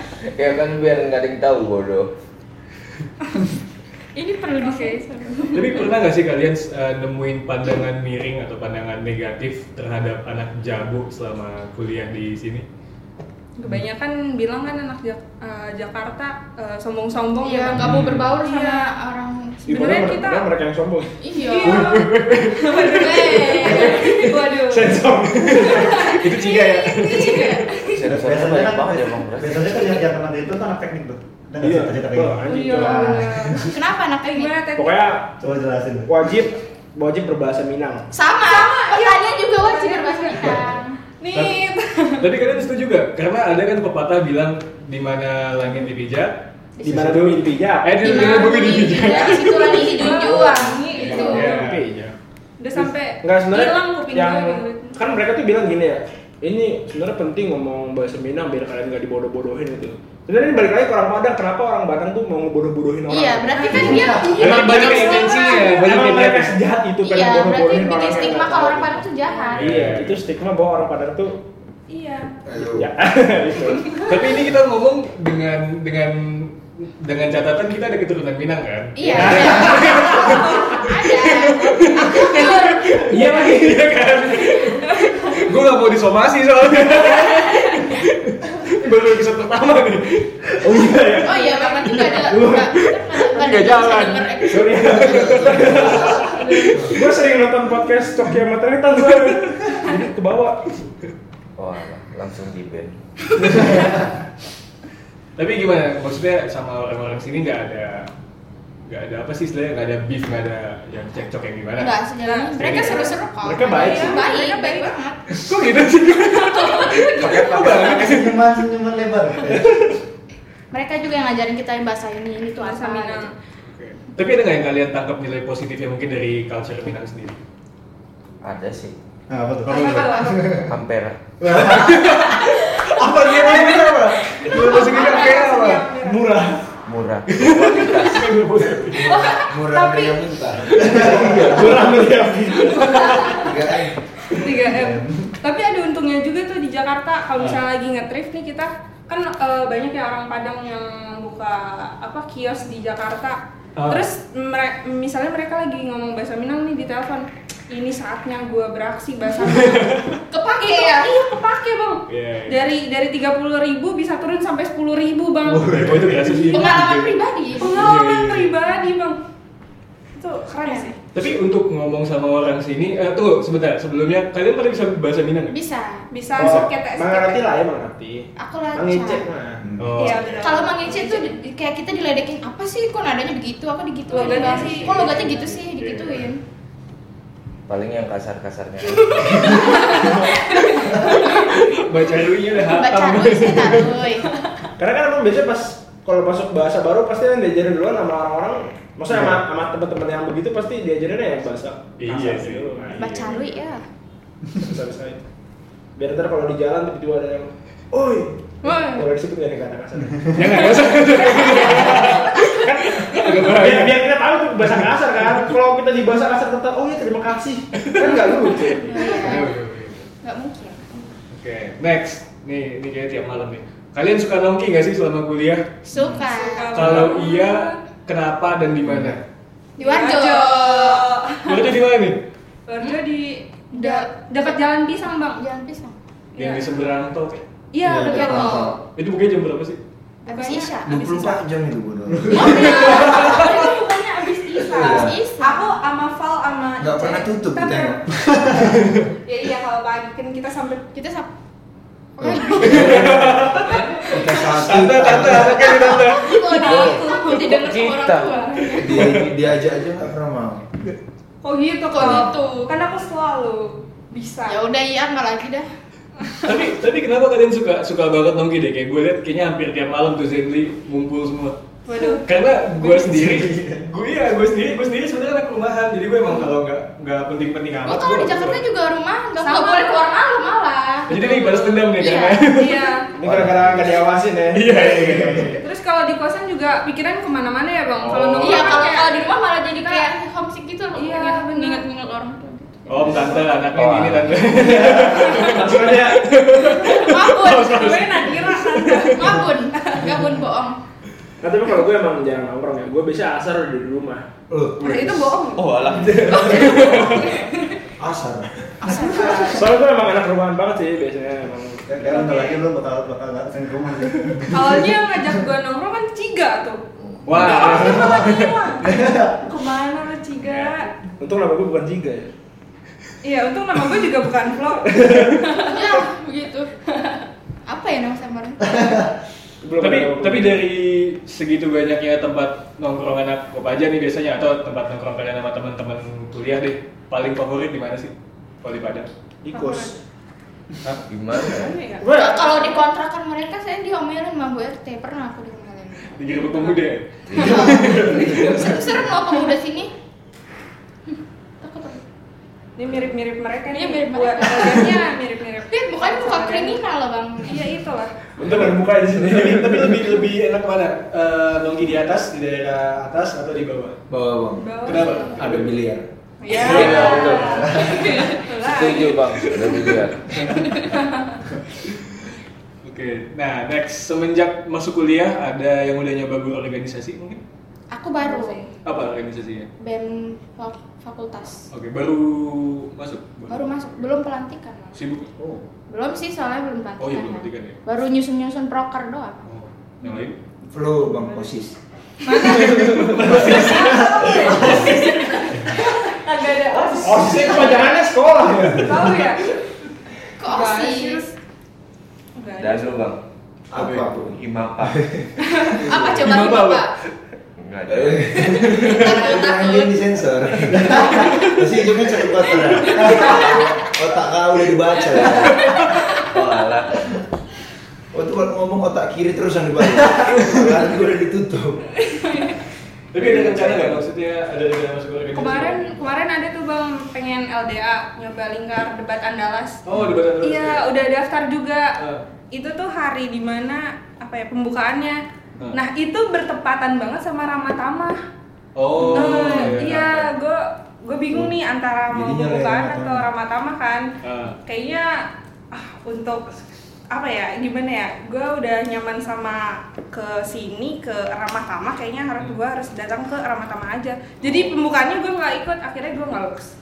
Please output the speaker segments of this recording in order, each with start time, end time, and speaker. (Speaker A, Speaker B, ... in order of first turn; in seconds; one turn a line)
Speaker A: 0.3-2.1
Speaker B: 4.1-5.8
Speaker C: 4.6-5.5
Speaker D: 5.5-12.7
Speaker C: 13.6-18.9
Speaker B: 17.4-19.7
Speaker D: 17.8-18.3
Speaker E: 19.7-21.2
Speaker C: 19.7-20.5
Speaker B: 21.2-22.1
Speaker C: 21.3-28.0
Speaker D: 21.6-24.3
Speaker B: 22.7-24.4
Speaker E: 23.6-24.1
Speaker E: 24.6-26.1
Speaker D: 25.2-27.6
Speaker B: 25.7-27.7
Speaker A: 27.9-29.9
Speaker F: 28.0-33.7
Speaker E: 31.6-33.4
Speaker C: 32.5-33.7
Speaker B: 33.7-34.6
Speaker C: 34.3-34.9
Speaker E: 34.7-35.4
Speaker F: 35.4-36.1
Speaker E: 36.0-38.1
Speaker B: 38.1-41.0
Speaker C: 38.4-40.6
Speaker C: 41.2-42.2
Speaker D: 41.3-41.6
Speaker D: 42.2-50.3
Speaker B: 46.8-47.1
Speaker E: 46.8-48.5
Speaker B: 48.0-51.6
Speaker C: 48.5-51.6
Speaker D: 50.9-51.8
Speaker E: 50.9-52.1
Speaker C: 52.6-55.1
Speaker E: 52.8-71.4
Speaker B: 63.1-65.9
Speaker C: 63.5-64.5
Speaker D: 63.8-66.6
Speaker B: 67.0-69.7
Speaker C: 69.2-69.6
Speaker D: 69.5-70.2
Speaker C: 71.9-72.3
Speaker G: 72.4-72.9
Speaker E: 72.6-74.0
Speaker D: 74.0-91.3
Speaker B: 79.0-83.0
Speaker E: 79.0-79.8
Speaker C: 80.2-80.6
Speaker E: 83.0-84.1
Speaker E: 90.6-92.8
Speaker B: 91.2-94.9
Speaker D: 93.1-97.0
Speaker E: 94.5-100.6
Speaker C: 96.0-96.9
Speaker A: 101.6-103.0
Speaker A: 103.5-103.7
Speaker D: 105.4-108.1
Speaker D: 108.9-112.0
Speaker B: 111.8-115.4
Speaker C: 112.2-114.9
Speaker D: 112.6-113.1
Speaker E: 113.4-114.2
Speaker D: 115.3-118.4
Speaker C: 116.3-117.8
Speaker B: 116.8-117.9
Speaker F: 117.3-119.8
Speaker B: 120.7-123.3
Speaker C: 122.5-123.3
Speaker D: 123.7-127.4
Speaker A: 128.4-128.9
Speaker F: 129.3-130.7
Speaker C: 129.7-130.6
Speaker B: 129.7-130.2
Speaker A: 130.6-131.2
Speaker G: 131.4-131.9
Speaker D: 131.5-135.9
Speaker G: 133.0-134.3
Speaker C: 134.4-136.4
Speaker B: 134.5-135.4
Speaker E: 136.0-136.6
Speaker A: 136.8-138.4
Speaker D: 137.3-139.3
Speaker G: 138.8-142.0
Speaker C: 139.0-140.2
Speaker E: 140.8-142.8
Speaker D: 142.6-143.4
Speaker C: 142.8-143.5
Speaker G: 143.3-144.0
Speaker C: 144.3-160.1
Speaker D: 153.8-154.0
Speaker D: 159.4-160.2
Speaker B: 160.3-161.1
Speaker C: 160.6-166.1
Speaker D: 162.1-162.6
Speaker D: 165.5-168.5
Speaker B: 166.5-167.8
Speaker C: 167.6-169.2
Speaker C: 170.1-170.9
Speaker B: 170.6-170.9
Speaker D: 171.1-175.6
Speaker B: 175.5-176.1
Speaker C: 176.1-177.4
Speaker E: 176.3-179.6
Speaker D: 176.3-176.7
Speaker B: 178.4-179.2
Speaker D: 179.8-180.4
Speaker C: 180.0-181.4
Speaker B: 180.4-186.4
Speaker C: 184.1-185.3
Speaker D: 184.5-186.2
Speaker A: 187.7-189.5
Speaker B: 189.2-194.4
Speaker C: 189.4-190.3
Speaker D: 191.2-194.0
Speaker E: 194.8-203.5
Speaker D: 202.0-203.4
Speaker B: 202.9-203.8
Speaker E: 204.5-205.2
Speaker E: 205.9-219.3
Speaker B: 208.6-209.1
Speaker D: 210.3-214.1
Speaker C: 211.0-211.6
Speaker B: 211.1-212.5
Speaker D: 217.7-218.3
Speaker B: 218.8-219.6
Speaker D: 218.9-220.1
Speaker B: 220.2-221.1
Speaker D: 221.3-225.7
Speaker B: 225.8-227.0
Speaker C: 226.1-227.8
Speaker D: 226.7-229.2
Speaker B: 229.8-231.1
Speaker C: 229.8-231.7
Speaker D: 231.4-232.2
Speaker C: 232.7-235.4
Speaker B: 233.7-234.6
Speaker B: 235.3-235.9
Speaker D: 236.3-237.4
Speaker C: 236.3-236.8
Speaker C: 237.7-238.8
Speaker G: 237.8-238.8
Speaker D: 238.9-239.8
Speaker B: 240.2-241.4
Speaker C: 240.3-241.3
Speaker G: 240.8-242.8
Speaker B: 242.3-245.7
Speaker C: 242.4-248.0
Speaker D: 242.8-243.2
Speaker G: 244.7-245.2
Speaker G: 246.8-248.9
Speaker C: 249.2-250.8
Speaker B: 250.9-251.3
Speaker C: 252.2-253.7
Speaker B: 252.2-253.1
Speaker G: 252.2-255.8
Speaker D: 252.6-256.7
Speaker B: 255.7-259.1
Speaker C: 256.5-257.7
Speaker A: 256.6-258.5
Speaker C: 258.5-258.8
Speaker G: 258.7-260.6
Speaker D: 258.9-259.3
Speaker C: 261.4-264.6
Speaker B: 261.9-262.7
Speaker B: 264.5-265.7
Speaker D: 266.4-271.6
Speaker C: 271.9-272.2
Speaker B: 271.9-272.2
Speaker D: 272.2-278.6
Speaker E: 273.0-273.8
Speaker B: 277.8-281.1
Speaker C: 279.4-280.1
Speaker D: 281.1-283.0
Speaker C: 281.1-283.1
Speaker B: 281.9-282.5
Speaker E: 283.1-285.6
Speaker G: 283.2-284.0
Speaker D: 284.5-285.6
Speaker C: 285.6-290.1
Speaker D: 288.0-288.9
Speaker B: 288.4-293.7
Speaker C: 290.9-291.9
Speaker D: 292.9-299.4
Speaker A: 293.7-294.5
Speaker E: 294.5-296.3
Speaker B: 296.8-298.0
Speaker C: 296.8-300.1
Speaker B: 299.1-300.8
Speaker E: 301.4-304.2
Speaker G: 304.5-305.4
Speaker C: 304.8-307.7
Speaker A: 305.6-306.5
Speaker E: 306.1-306.8
Speaker D: 306.4-307.3
Speaker B: 306.8-307.2
Speaker G: 308.0-309.6
Speaker B: 308.8-309.7
Speaker C: 309.0-309.5
Speaker E: 309.5-311.9
Speaker G: 311.9-312.2
Speaker F: 311.9-314.9
Speaker C: 312.1-312.6
Speaker C: 314.5-320.9
Speaker D: 317.2-318.6
Speaker B: 317.4-318.2
Speaker D: 320.4-320.8
Speaker E: 321.2-322.3
Speaker C: 323.2-325.7
Speaker E: 324.9-325.4
Speaker B: 325.4-326.8
Speaker B: 327.7-329.0
Speaker E: 329.6-330.6
Speaker D: 329.8-339.1
Speaker E: 339.4-340.0
Speaker C: 339.5-340.0
Speaker A: 340.8-341.8
Speaker C: 341.4-342.1
Speaker E: 342.0-342.8
Speaker B: 342.1-346.8
Speaker D: 346.1-348.8
Speaker B: 347.3-349.9
Speaker G: 347.4-348.9
Speaker B: 351.6-352.0
Speaker C: 352.8-356.8
Speaker B: 353.7-355.1
Speaker B: 355.7-357.8
Speaker C: 357.4-358.2
Speaker E: 358.4-360.3
Speaker D: 358.4-362.6
Speaker E: 361.8-363.6
Speaker D: 363.2-364.0
Speaker G: 364.1-366.1
Speaker C: 364.6-365.3
Speaker D: 364.8-365.8
Speaker C: 366.4-369.2
Speaker D: 366.5-367.9
Speaker A: 366.6-367.7
Speaker B: 366.8-368.4
Speaker A: 368.6-370.4
Speaker D: 369.4-370.6
Speaker B: 370.5-371.0
Speaker C: 370.8-371.4
Speaker D: 372.8-377.4
Speaker B: 377.9-378.7
Speaker C: 378.2-378.7
Speaker D: 378.8-379.7
Speaker B: 379.8-381.7
Speaker D: 381.7-383.7
Speaker B: 383.5-385.0
Speaker D: 384.9-385.4
Speaker B: 385.9-389.4
Speaker D: 387.0-387.8
Speaker D: 389.4-390.4
Speaker G: 390.7-391.8
Speaker C: 391.2-391.5
Speaker C: 392.2-397.8
Speaker D: 392.3-394.9
Speaker E: 392.6-393.3
Speaker B: 393.5-398.0
Speaker E: 397.0-399.2
Speaker D: 397.2-397.6
Speaker C: 398.7-399.5
Speaker B: 400.4-401.2
Speaker C: 400.4-401.3
Speaker C: 402.4-403.1
Speaker A: 402.6-403.2
Speaker G: 403.7-405.3
Speaker D: 403.7-404.1
Speaker A: 404.2-405.0
Speaker C: 405.4-405.8
Speaker B: 405.7-406.9
Speaker G: 405.8-406.2
Speaker D: 406.2-406.9
Speaker A: 407.6-408.5
Speaker G: 407.9-415.7
Speaker B: 408.5-410.2
Speaker D: 408.8-409.2
Speaker C: 412.9-413.5
Speaker B: 412.9-413.5
Speaker A: 416.1-416.9
Speaker G: 418.1-421.8
Speaker C: 422.1-422.5
Speaker D: 423.1-426.1
Speaker G: 423.1-424.0
Speaker C: 425.3-429.8
Speaker D: 429.8-430.9
Speaker C: 430.4-431.9
Speaker D: 432.0-432.2
Speaker C: 432.5-438.2
Speaker D: 438.7-440.3
Speaker C: 439.0-444.1
Speaker G: 442.1-443.3
Speaker D: 444.2-444.6
Speaker C: 444.6-446.6
Speaker C: 447.1-456.7
Speaker D: 454.4-454.8